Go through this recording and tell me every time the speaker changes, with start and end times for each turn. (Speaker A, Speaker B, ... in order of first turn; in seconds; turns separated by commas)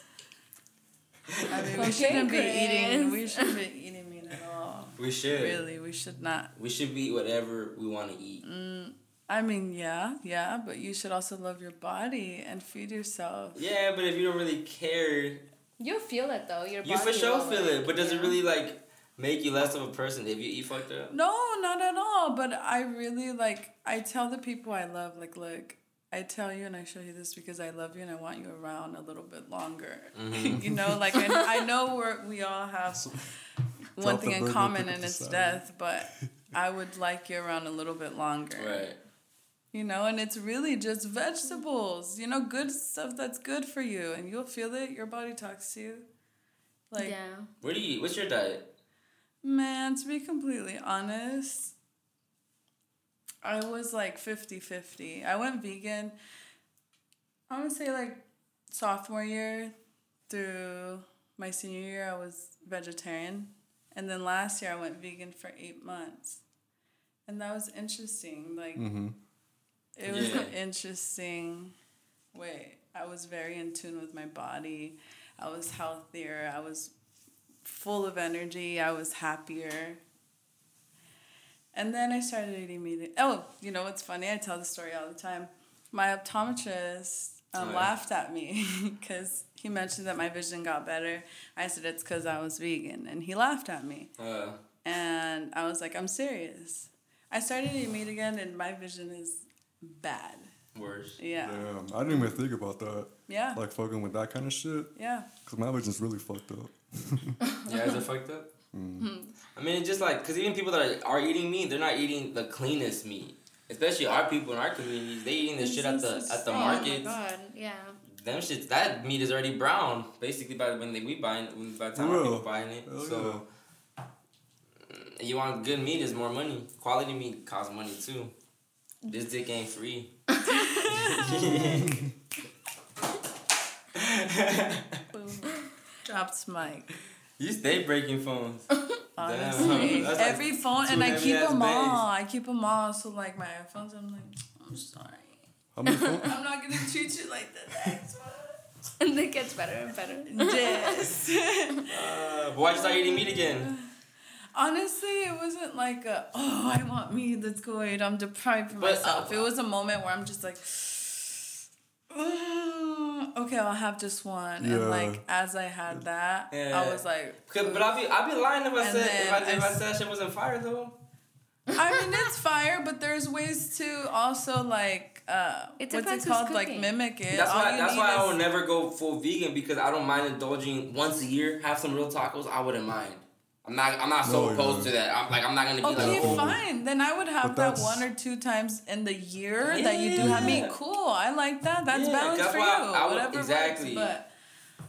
Speaker A: 1.3-1.9, Speaker B: 1.5-6.5, Speaker C: 1.8-3.5, Speaker A: 5.0-5.6, Speaker A: 6.6-8.4, Speaker B: 8.4-13.6, Speaker A: 13.6-15.4, Speaker C: 15.8-18.4, Speaker A: 16.8-21.1, Speaker B: 21.1-33.1, Speaker A: 30.2-30.7, Speaker D: 30.5-31.0, Speaker D: 32.9-33.2, Speaker B: 34.0-38.9, Speaker D: 34.0-35.6, Speaker A: 38.6-39.0, Speaker B: 39.7-46.1, Speaker C: 47.0-47.5, Speaker A: 47.6-48.7, Speaker B: 49.4-51.7, Speaker B: 53.4-56.2, Speaker B: 57.5-59.7, Speaker B: 60.3-66.4, Speaker B: 67.3-68.9, Speaker D: 68.8-69.2, Speaker B: 70.0-71.8, Speaker A: 70.1-70.5, Speaker B: 72.3-76.9, Speaker B: 77.6-80.0, Speaker B: 81.7-94.1, Speaker A: 87.6-87.9, Speaker A: 94.2-94.6, Speaker B: 94.8-100.5, Speaker A: 100.7-101.2, Speaker B: 101.2-102.4, Speaker D: 101.4-104.9, Speaker B: 103.3-103.6, Speaker B: 105.0-105.3, Speaker D: 105.4-107.4, Speaker A: 107.7-108.5, Speaker D: 108.7-109.1, Speaker C: 109.0-109.3, Speaker A: 109.5-117.2, Speaker B: 115.6-117.2, Speaker C: 116.5-118.0, Speaker A: 118.1-123.5, Speaker D: 122.0-123.4, Speaker A: 124.9-128.3, Speaker A: 129.1-130.1, Speaker C: 130.3-130.8, Speaker B: 130.5-131.7, Speaker A: 130.9-132.1, Speaker D: 131.5-132.1, Speaker A: 133.9-135.0, Speaker B: 135.1-136.9, Speaker A: 137.4-138.7, Speaker B: 139.2-145.4, Speaker A: 139.2-142.0, Speaker C: 139.6-140.1, Speaker D: 145.8-146.3, Speaker C: 145.9-146.2, Speaker B: 146.2-148.6, Speaker C: 149.0-151.2, Speaker B: 150.3-151.9, Speaker A: 151.9-153.7, Speaker B: 152.7-153.9, Speaker B: 154.5-161.5, Speaker A: 158.8-159.4, Speaker B: 162.1-167.9, Speaker D: 164.6-165.2, Speaker A: 166.5-171.0, Speaker B: 168.8-169.8, Speaker B: 171.7-178.4, Speaker C: 175.8-176.9, Speaker A: 177.3-186.6, Speaker D: 184.2-184.9, Speaker B: 185.8-194.3, Speaker D: 186.0-186.6, Speaker D: 187.4-188.1, Speaker A: 189.6-190.8, Speaker D: 190.2-190.6, Speaker A: 191.9-194.2